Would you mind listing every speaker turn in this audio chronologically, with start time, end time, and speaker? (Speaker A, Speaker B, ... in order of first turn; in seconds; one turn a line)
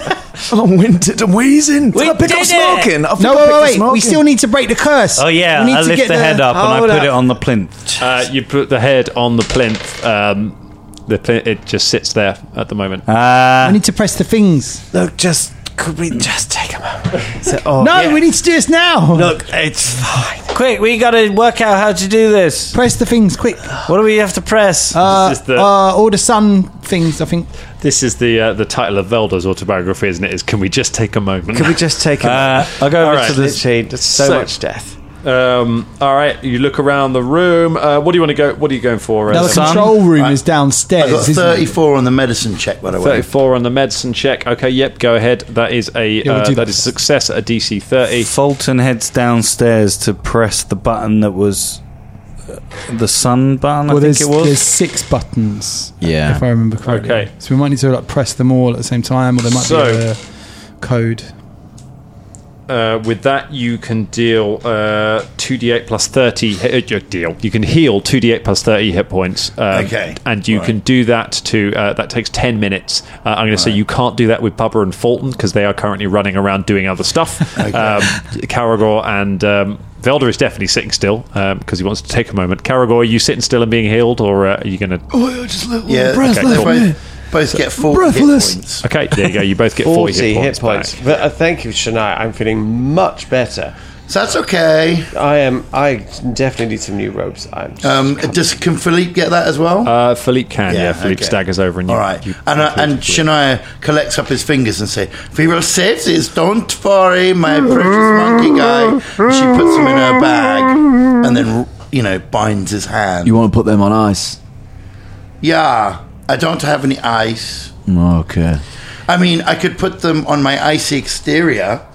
Speaker A: 0.5-4.2
Speaker B: 1.9-3.0
Speaker C: 3.2-6.5
Speaker B: 5.2-8.0
Speaker D: 6.5-7.2
Speaker E: 8.0-10.6
Speaker E: 11.1-13.1
Speaker B: 13.1-13.8
Speaker C: 13.6-14.8
Speaker D: 14.9-18.3
Speaker C: 17.8-19.4
Speaker D: 19.1-20.5
Speaker B: 20.5-22.8
Speaker C: 22.7-23.7
Speaker B: 23.9-25.0
Speaker C: 24.9-27.5
Speaker E: 25.1-25.7
Speaker E: 27.8-31.8
Speaker D: 31.5-35.0
Speaker B: 32.2-33.6
Speaker E: 32.8-33.5
Speaker E: 34.1-34.5
Speaker E: 35.2-39.9
Speaker C: 39.3-41.7
Speaker B: 39.3-40.0
Speaker F: 40.1-40.4
Speaker F: 41.0-43.3
Speaker E: 43.0-48.3
Speaker C: 46.2-46.9
Speaker B: 48.2-51.8
Speaker B: 52.5-54.6
Speaker C: 53.9-60.2
Speaker A: 56.0-56.4
Speaker E: 56.8-57.3
Speaker E: 59.5-60.0
Speaker C: 60.8-61.3
Speaker E: 62.7-85.0
Speaker F: 69.7-70.8
Speaker F: 77.6-78.2
Speaker A: 85.1-86.9
Speaker F: 85.9-88.8
Speaker E: 86.2-86.9
Speaker A: 87.8-88.6
Speaker E: 88.8-91.0
Speaker D: 89.8-93.7
Speaker F: 94.1-95.1
Speaker D: 95.1-98.3
Speaker F: 97.8-99.9
Speaker E: 99.8-103.2
Speaker F: 100.7-113.4
Speaker A: 113.2-114.4
Speaker F: 115.4-117.7
Speaker A: 117.9-118.6
Speaker F: 119.1-121.8